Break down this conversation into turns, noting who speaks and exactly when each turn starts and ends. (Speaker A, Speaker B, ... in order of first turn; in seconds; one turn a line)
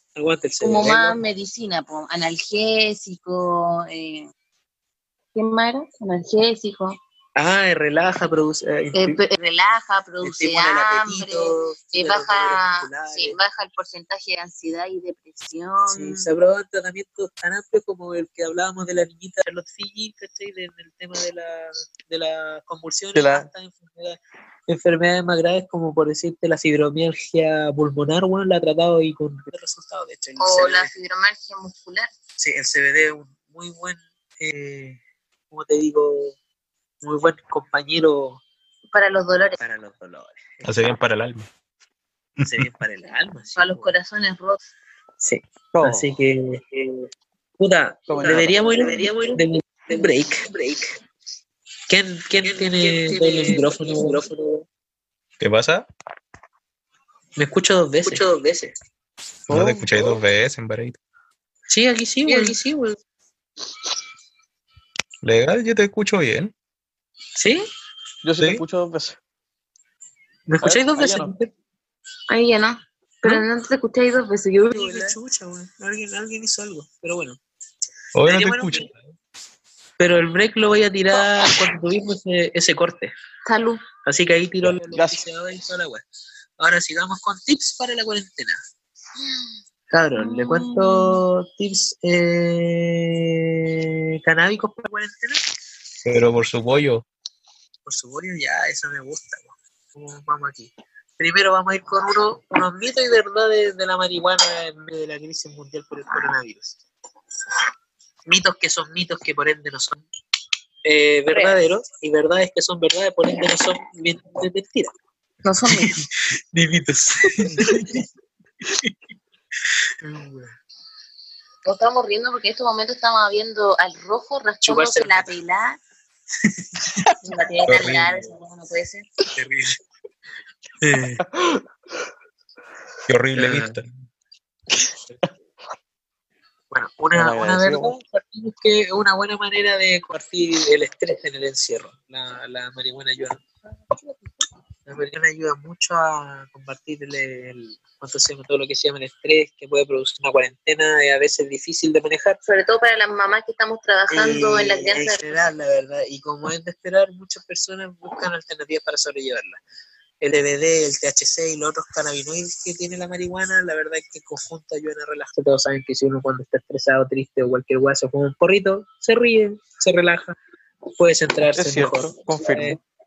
Speaker A: 0.1-1.2
Speaker B: 0.6-4.3
Speaker B: 5.3-7.0
Speaker A: 7.3-9.2
Speaker B: 8.9-16.3
Speaker A: 10.2-13.4
Speaker A: 15.9-30.9
Speaker C: 23.1-23.5
Speaker B: 30.4-32.1
Speaker A: 32.4-35.0
Speaker A: 35.5-36.3
Speaker A: 37.0-38.4
Speaker B: 38.9-39.6
Speaker A: 39.6-40.9
Speaker D: 40.6-41.5
Speaker D: 42.4-42.7
Speaker A: 42.4-43.9
Speaker B: 43.5-44.6
Speaker A: 45.2-51.0
Speaker C: 45.7-46.1
Speaker C: 48.1-48.6
Speaker B: 48.8-49.4
Speaker A: 51.9-54.6
Speaker B: 52.4-54.3
Speaker D: 55.4-55.9
Speaker A: 57.4-58.7
Speaker D: 59.5-61.0
Speaker A: 59.5-60.1
Speaker A: 61.7-63.0
Speaker B: 62.2-62.6
Speaker D: 65.2-66.5
Speaker A: 67.3-67.7
Speaker C: 68.2-69.2
Speaker A: 70.5-71.5
Speaker C: 70.6-71.3
Speaker B: 72.3-75.2
Speaker A: 74.7-77.4
Speaker D: 78.1-78.9
Speaker A: 78.2-78.9
Speaker A: 80.0-83.1
Speaker B: 83.4-83.8
Speaker A: 84.0-86.0
Speaker C: 84.7-85.2
Speaker A: 86.6-88.6
Speaker A: 89.9-95.4
Speaker B: 90.2-91.2
Speaker D: 96.0-97.0
Speaker A: 97.8-106.8
Speaker A: 108.2-110.0
Speaker A: 110.8-114.9
Speaker B: 111.3-111.6
Speaker B: 115.4-115.9
Speaker A: 116.5-118.0
Speaker A: 120.0-120.5
Speaker B: 121.6-125.8
Speaker A: 124.6-125.3
Speaker A: 126.4-127.0
Speaker B: 127.2-129.1
Speaker D: 127.7-128.1
Speaker A: 129.3-129.7
Speaker A: 130.8-131.2
Speaker C: 131.2-131.6
Speaker D: 133.1-133.9
Speaker A: 133.3-133.7
Speaker A: 136.7-143.4
Speaker C: 137.1-137.9
Speaker B: 143.9-144.4
Speaker A: 144.9-152.4
Speaker B: 152.4-155.5
Speaker A: 154.1-159.6
Speaker A: 160.2-170.4
Speaker A: 171.0-172.8
Speaker C: 171.5-172.8